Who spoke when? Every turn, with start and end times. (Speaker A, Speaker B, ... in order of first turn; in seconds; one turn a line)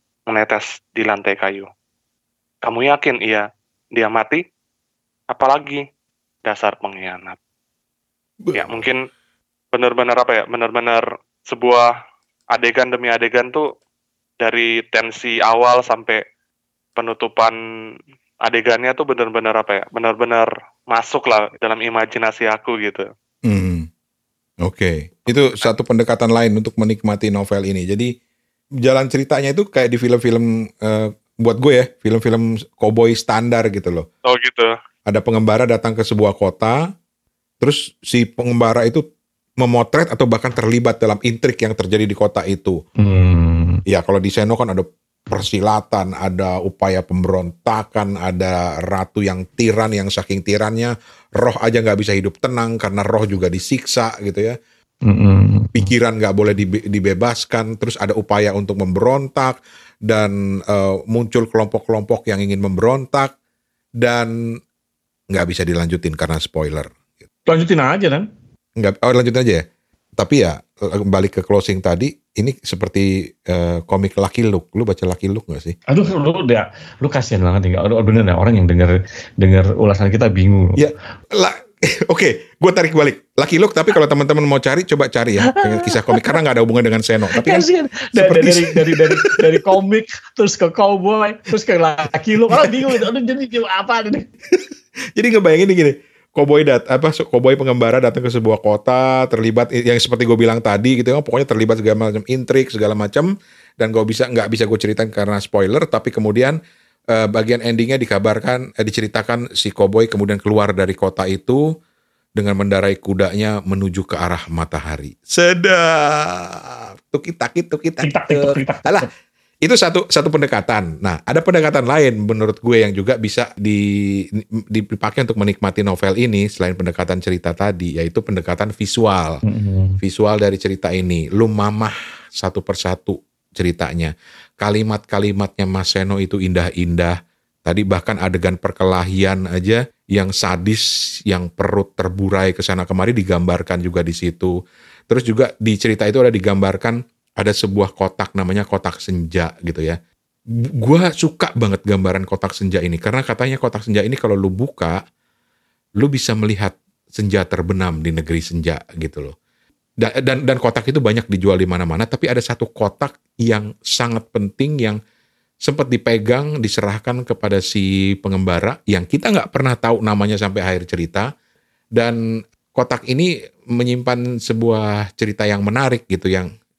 Speaker A: 0.3-1.7
Speaker A: 2.6-4.4
Speaker A: 5.3-5.8
Speaker A: 6.4-7.4
Speaker B: 8.4-8.8
Speaker A: 8.5-9.0
Speaker A: 9.7-11.9
Speaker A: 12.5-13.7
Speaker A: 14.4-16.2
Speaker A: 16.9-17.6
Speaker A: 18.4-23.1
Speaker B: 23.5-23.9
Speaker B: 24.6-28.1
Speaker B: 28.8-34.0
Speaker A: 34.2-34.7
Speaker B: 35.1-36.8
Speaker B: 37.6-39.0
Speaker B: 39.6-42.8
Speaker C: 43.0-43.8
Speaker B: 43.9-54.5
Speaker C: 55.0-55.9
Speaker B: 55.7-63.3
Speaker B: 64.0-64.3
Speaker B: 65.3-66.9
Speaker C: 67.5-68.3
Speaker B: 68.8-69.6
Speaker B: 70.2-75.8
Speaker C: 75.9-80.8
Speaker B: 80.8-89.6
Speaker C: 85.4-86.3
Speaker C: 87.3-94.3
Speaker B: 92.5-93.0
Speaker B: 94.5-106.6
Speaker B: 107.1-111.6
Speaker B: 112.4-119.1
Speaker C: 118.0-119.1
Speaker B: 119.6-123.8
Speaker B: 124.4-129.4
Speaker C: 129.4-130.0
Speaker B: 130.0-137.1
Speaker B: 137.7-144.5
Speaker B: 145.1-150.0
Speaker B: 150.5-155.0
Speaker B: 156.0-159.3
Speaker B: 160.0-165.0
Speaker B: 165.6-171.3
Speaker B: 172.7-176.5